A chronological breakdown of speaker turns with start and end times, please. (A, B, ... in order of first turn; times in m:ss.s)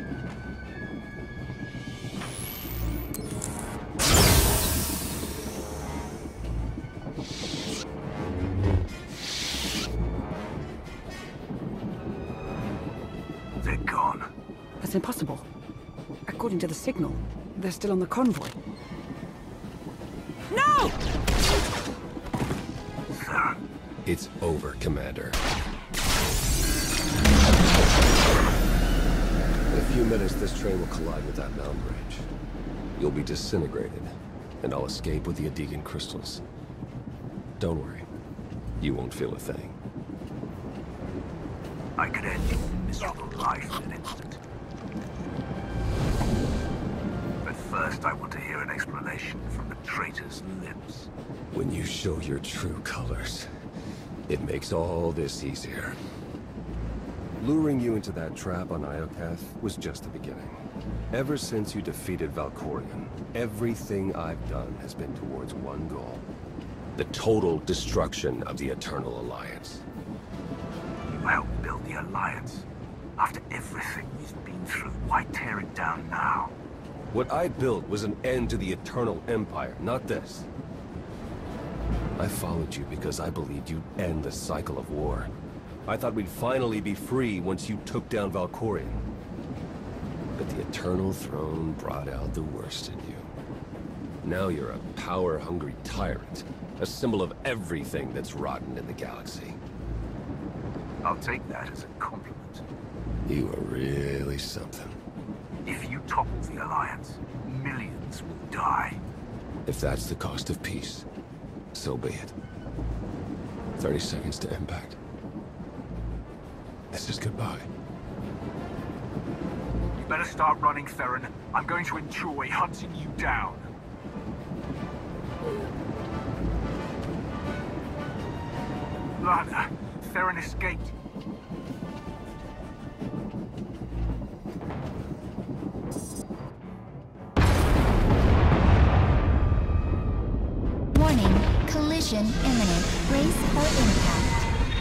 0:13.6-0:14.3 A
0:14.8-0:15.4 B
0:16.2-0:18.6 B
0:20.5-0:20.9 B
0:23.1-0:23.6 A
0:24.0-0:25.4 C
0:29.7-0:32.3 C
0:33.0-0:36.4 C
0:37.6-0:38.1 C
0:38.8-0:39.8 C
0:42.0-0:44.4 A
0:47.4-0:51.1 A
0:51.5-0:53.5 C
0:54.3-0:56.0 C
0:57.4-1:06.2 C
1:07.0-1:09.8 C
1:11.0-1:12.6 A
1:13.2-1:16.5 A
1:17.1-1:20.5 C
1:22.2-1:25.3 C
1:25.8-1:29.0 C
1:30.4-1:33.3 C
1:34.2-1:39.6 C
1:41.0-1:42.6 A
1:43.2-1:45.0 C
1:45.6-1:49.0 A
1:49.6-1:51.1 C
1:51.7-1:52.3 C
1:53.8-1:55.0 C
1:56.9-1:57.7 C
2:00.0-2:03.7 A
2:09.2-2:10.9 A
2:20.9-2:24.4 D